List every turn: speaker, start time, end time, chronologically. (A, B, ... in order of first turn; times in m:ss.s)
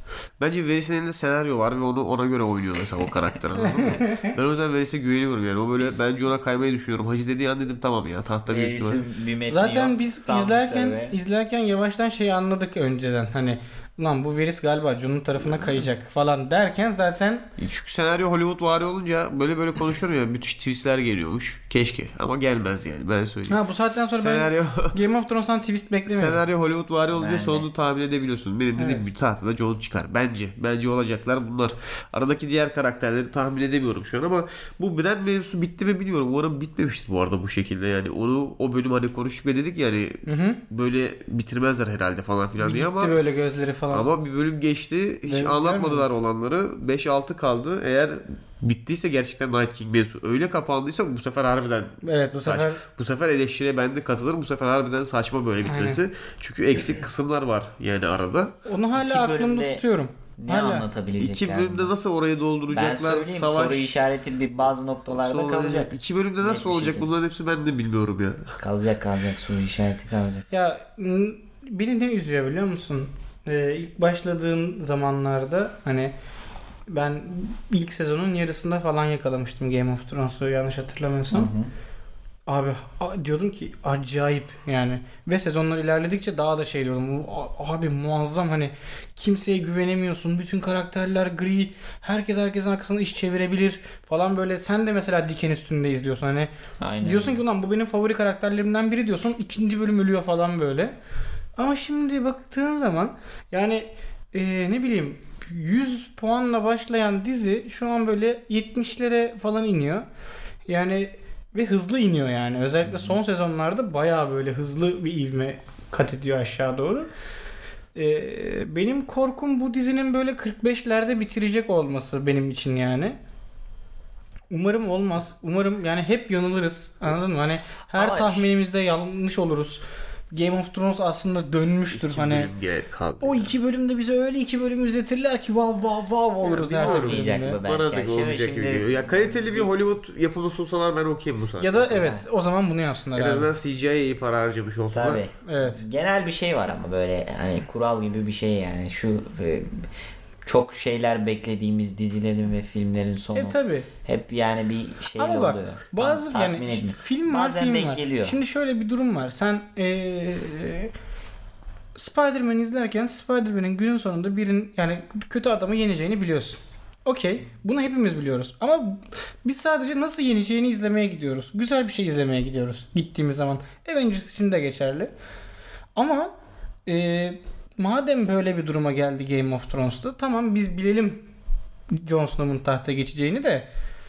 0:00.4-0:09.0 A
0:03.6-0:04.3 B
0:08.5-0:11.2 C
0:09.5-0:17.5 B
0:15.4-0:15.8 A
0:17.6-0:23.6 A
0:23.5-0:26.4 B
0:24.1-0:25.0 A
0:26.0-0:43.2 A
0:27.1-0:27.7 C
0:28.8-0:29.0 B
0:40.2-0:40.6 B
0:42.6-0:44.1 B
0:43.9-0:58.5 A
0:45.2-0:46.0 B
0:52.0-0:52.8 B
0:55.6-0:56.0 B
0:58.6-1:00.8 B
0:58.9-0:59.8 C
1:00.4-1:01.9 C
1:01.2-1:03.9 A
1:02.7-1:07.1 C
1:05.1-1:08.6 A
1:08.6-1:10.4 C
1:10.5-1:16.1 B
1:16.9-1:21.5 B
1:21.3-1:21.7 C
1:22.5-1:36.5 B
1:36.8-1:37.4 C
1:37.0-1:40.9 B
1:41.6-1:50.0 B
1:50.7-1:57.1 B
1:52.9-1:53.2 C
1:57.9-2:03.2 B
2:04.5-2:12.5 B
2:07.9-2:08.5 C
2:11.9-2:13.5 A
2:13.2-2:17.6 B
2:16.4-2:21.9 A
2:16.7-2:19.7 C
2:21.6-2:23.5 B
2:21.9-2:22.2 C
2:23.2-2:25.2 A
2:24.9-2:29.9 C
2:25.4-2:25.8 B
2:30.4-2:38.4 C
2:33.3-2:33.9 B
2:35.2-2:40.9 B
2:42.0-2:55.1 B
2:56.0-2:56.3 B
2:56.8-3:01.2 B
3:02.0-3:03.7 B